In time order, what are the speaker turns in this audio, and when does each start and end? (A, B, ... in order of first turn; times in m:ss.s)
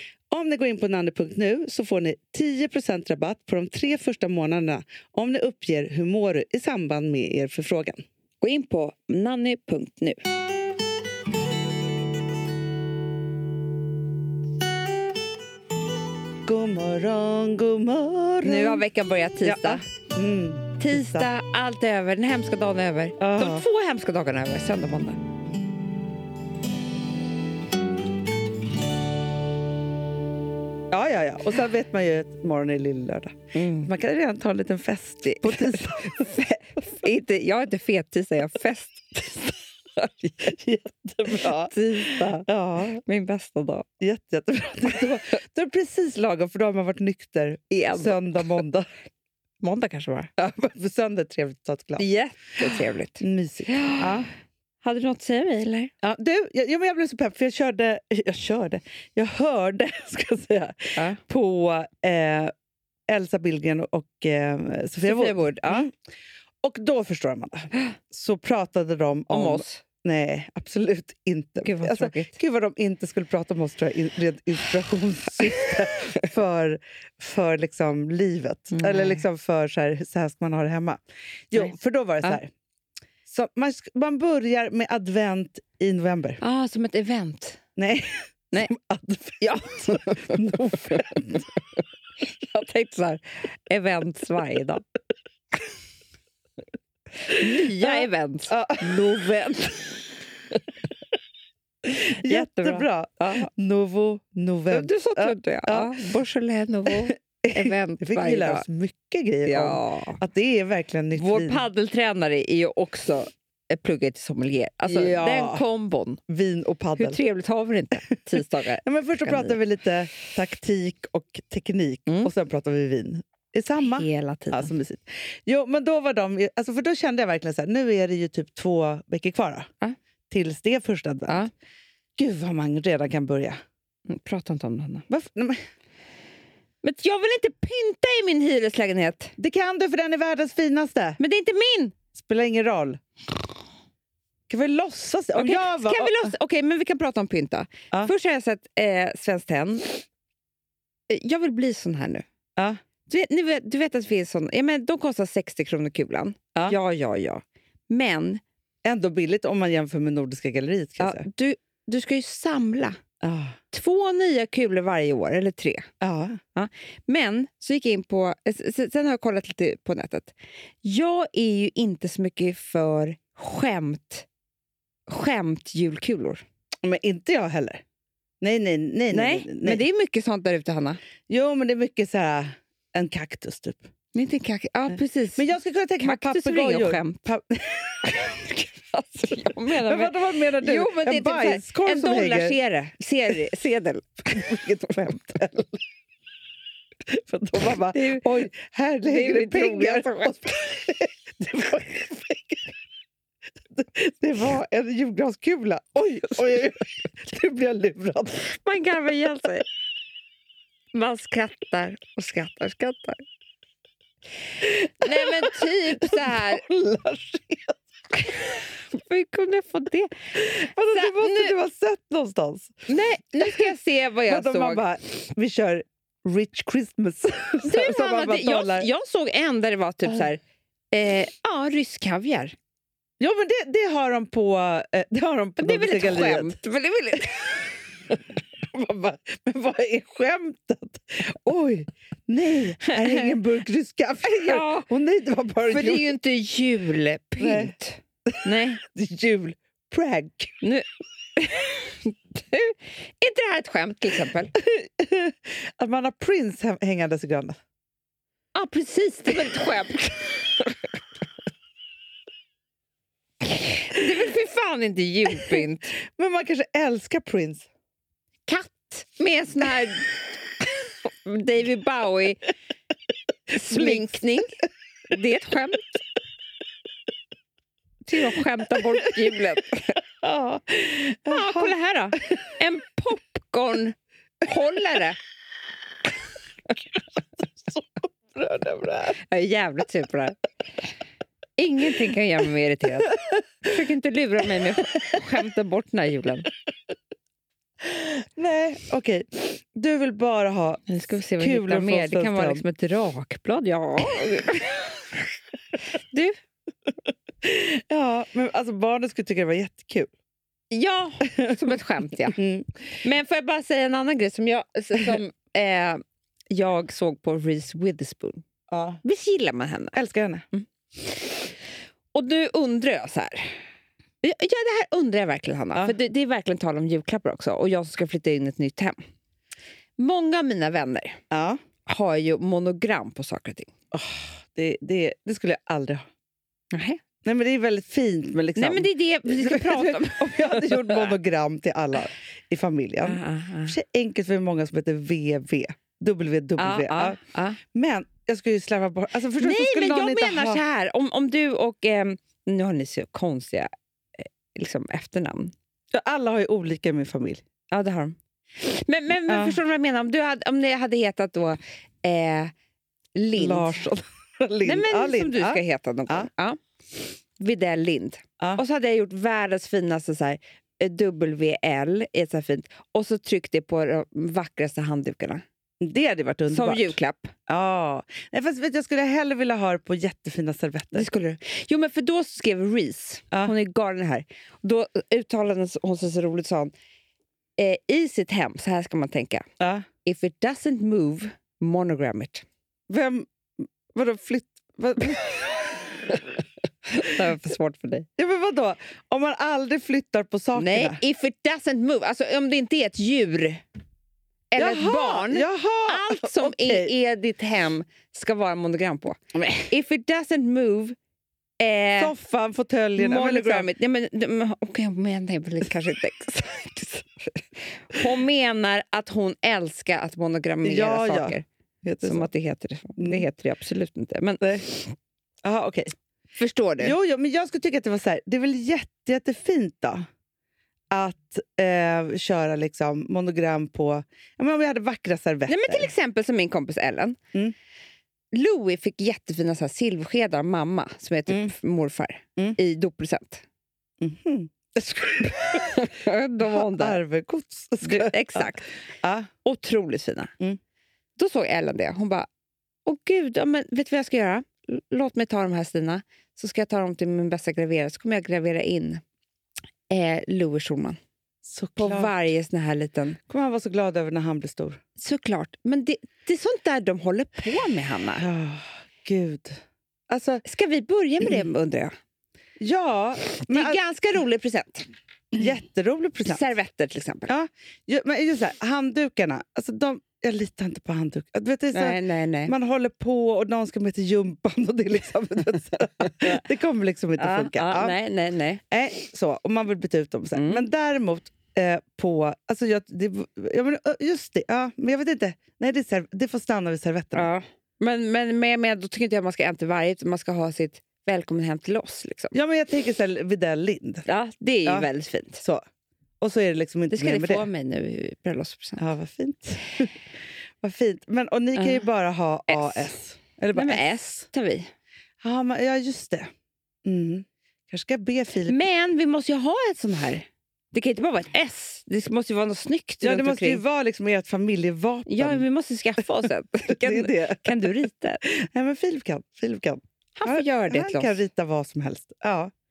0:00.3-0:08.0 A
0:08.4-0:10.2 B
0:16.5-0:18.8 A
0:18.4-0:19.8 B
0:19.4-0:21.3 A
0:20.8-0:25.2 B
0:23.2-0:23.7 A
0:30.9-0:36.5 A
0:33.5-0:33.9 B
0:35.2-0:40.6 B
0:40.4-0:43.0 A
0:41.3-0:43.9 B
0:44.0-0:48.9 A
0:47.7-0:48.6 B
0:49.6-0:50.3 B
0:50.4-0:52.1 A
0:52.0-0:54.3 B
0:53.2-0:54.3 A
0:54.8-0:55.9 B
0:56.0-1:02.5 A
1:03.1-1:05.9 A
1:05.0-1:05.9 B
1:06.6-1:22.5 A
1:09.3-1:09.8 B
1:11.6-1:12.4 B
1:18.7-1:19.2 B
1:21.5-1:22.4 B
1:23.3-1:26.4 A
1:26.4-1:27.6 B
1:27.8-1:31.4 A
1:29.4-1:31.4 B
1:32.2-1:34.8 B
1:37.3-1:40.2 B
1:37.4-1:39.2 A
1:42.1-1:43.5 B
1:42.2-1:45.9 A
1:44.7-1:48.6 B
1:46.9-1:51.6 A
1:49.5-1:50.2 B
1:51.2-1:56.2 B
1:54.9-1:55.6 A
1:56.3-1:57.2 A
1:57.0-1:59.6 B
1:58.8-2:09.7 A
2:03.8-2:04.7 B
2:10.3-2:11.4 A
2:12.2-2:13.6 A
2:14.1-2:15.0 B
2:15.1-2:15.6 A
2:16.8-2:19.4 B
2:19.4-2:21.2 A
2:21.2-2:22.0 B
2:22.2-2:23.0 A
2:24.5-2:26.3 A
2:25.4-2:30.0 B
2:31.1-2:32.2 B
2:33.1-2:38.4 B
2:38.8-2:41.2 A
2:41.0-2:43.0 B
2:43.2-2:43.6 A
2:43.7-2:45.9 B
2:46.0-2:46.4 A
2:46.6-2:54.3 B
2:55.1-2:56.4 B
2:56.8-2:57.8 A
2:58.4-2:59.8 A
2:59.1-3:01.0 B
3:01.3-3:03.9 A
3:04.1-3:07.2 B
3:05.4-3:08.4 A
3:08.1-3:14.9 B
3:09.8-3:12.6 A
3:14.3-3:15.8 A
3:17.1-3:22.7 A
3:17.8-3:18.3 B
3:19.0-3:20.4 B
3:23.8-3:28.5 A
3:28.4-3:29.7 B
3:30.9-3:33.2 B
3:34.6-3:36.6 B
3:35.0-3:37.8 A
3:38.1-3:41.6 B
3:40.4-3:42.8 A
3:42.9-3:44.8 B
3:43.4-3:43.7 A
3:44.3-3:48.9 A
3:47.7-3:50.4 B
3:50.9-3:52.6 B
3:53.2-3:56.5 A
3:55.6-3:57.9 B
3:58.6-4:06.1 A
4:02.8-4:03.4 B
4:04.2-4:04.9 B
4:05.7-4:08.8 B
4:07.4-4:07.7 A
4:08.3-4:10.6 A
4:10.6-4:14.5 B
4:14.6-4:17.6 A
4:18.6-4:21.0 B
4:23.4-4:25.9 B
4:26.1-4:27.7 A
4:28.5-4:32.4 B
4:33.5-4:34.5 B
4:33.7-4:34.0 A
4:35.1-4:36.0 B
4:38.0-4:40.0 B
4:40.2-4:42.2 A
4:41.3-4:45.2 B
4:47.4-4:49.2 A
4:49.2-4:50.4 B
4:51.6-4:56.5 B
4:57.9-5:02.6 A
5:00.9-5:05.3 B
5:05.9-5:06.4 B
5:07.4-5:10.1 A
5:10.7-5:12.4 B
5:12.4-5:12.7 A
5:13.0-5:16.0 B
5:16.5-5:18.4 B
5:18.7-5:19.0 A
5:19.0-5:20.0 B
5:20.0-5:20.4 A
5:20.5-5:21.5 B
5:22.1-5:23.6 B
5:24.2-5:29.0 B
5:30.0-5:31.2 B
5:31.3-5:31.6 A
5:31.9-5:33.7 B
5:33.9-5:36.0 A
5:36.7-5:37.0 B
5:37.2-5:47.2 A
5:38.6-5:41.2 B
5:43.0-5:43.8 B
5:46.6-5:47.6 B
5:47.7-5:50.6 A
5:49.4-5:55.5 B
5:55.9-5:57.4 A
5:57.7-6:02.5 B
5:59.3-5:59.6 A
6:03.2-6:03.8 B
6:03.4-6:06.3 A
6:04.6-6:06.6 B
6:07.4-6:15.4 B
6:15.8-6:17.0 A
6:16.5-6:17.3 B
6:17.5-6:21.1 A
6:20.9-6:26.7 B
6:27.6-6:29.4 B
6:29.6-6:29.9 A
6:30.0-6:32.4 B
6:32.9-6:33.3 A
6:33.9-6:36.2 A
6:36.9-6:38.1 B
6:38.2-6:41.0 A
6:40.6-6:43.6 B
6:44.5-6:49.2 B
6:44.6-6:46.9 A
6:49.3-6:49.7 A
6:49.7-6:51.0 B
6:51.6-6:52.1 B
6:52.0-6:53.7 A
6:53.0-7:01.4 B
7:00.6-7:02.3 A
7:02.0-7:04.9 B
7:03.0-7:03.2 A
7:04.4-7:04.7 A
7:05.4-7:05.9 A
7:06.4-7:07.0 B
7:06.8-7:10.0 A
7:10.9-7:15.9 A
7:15.5-7:17.2 B
7:18.3-7:23.4 B
7:24.0-7:25.9 A
7:25.5-7:27.0 B
7:26.4-7:29.3 A
7:27.8-7:28.7 B
7:29.4-7:30.3 B
7:31.2-7:32.3 B
7:32.9-7:39.0 B
7:39.9-7:41.0 B
7:41.4-7:42.1 A
7:41.8-7:43.2 B
7:43.3-7:44.8 A
7:45.0-7:48.3 B
7:48.2-7:50.4 A
7:50.4-7:51.9 B
7:52.6-7:53.8 A
7:53.4-7:54.9 B
7:55.3-7:56.4 A
7:56.3-7:57.3 B
7:57.3-8:08.0 A
8:01.7-8:02.5 B
8:07.2-8:08.6 B
8:08.7-8:17.3 A
8:10.4-8:10.7 B
8:17.1-8:22.4 B
8:22.3-8:24.1 A
8:24.1-8:25.4 B
8:24.7-8:25.6 A
8:26.2-8:27.5 A
8:26.9-8:28.8 B
8:28.8-8:30.0 A
8:30.6-8:34.0 A
8:31.6-8:31.9 B
8:32.5-8:32.9 B
8:33.5-8:34.7 B
8:35.2-8:36.3 A
8:36.8-8:38.6 A
8:38.5-8:43.6 B
8:43.0-8:45.4 A
8:45.1-8:48.2 B
8:46.7-8:47.5 A
8:48.3-8:52.5 A
8:50.2-8:51.2 B